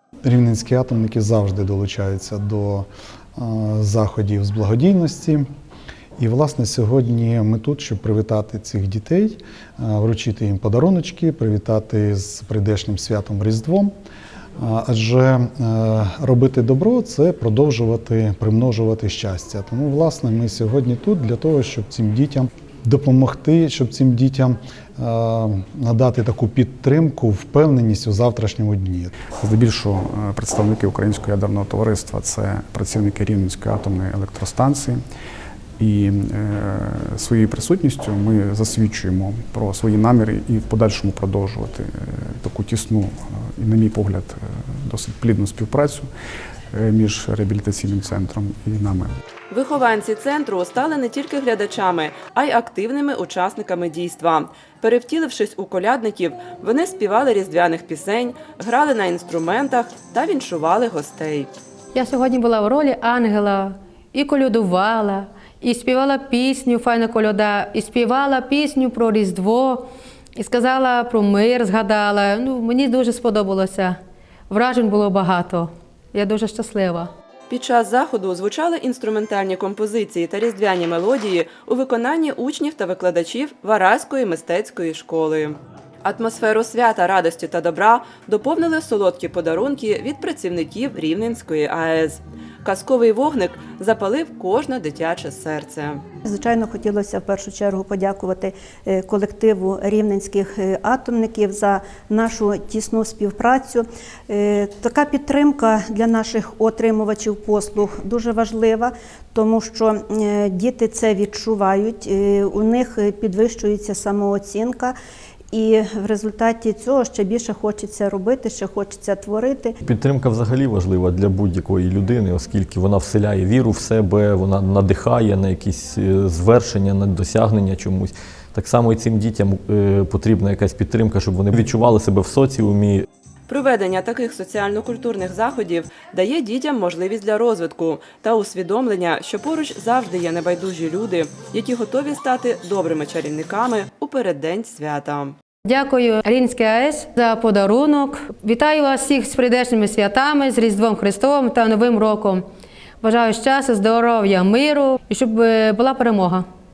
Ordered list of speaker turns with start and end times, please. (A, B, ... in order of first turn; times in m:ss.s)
0:00.2-0:05.5 A
0:06.2-0:13.9 A
0:14.6-0:29.1 A
0:29.4-0:35.0 B
0:35.8-0:46.1 B
0:46.7-0:49.1 B
0:49.5-1:01.5 C
1:01.9-1:09.8 D
1:10.4-1:14.0 D
1:14.5-1:17.1 D
1:17.5-1:36.0 C
1:36.3-1:55.0 E
1:55.5-1:59.8 E
1:59.8-2:13.1 F
2:13.5-2:25.4 C
2:25.7-2:32.4 D
2:33.0-2:36.5 D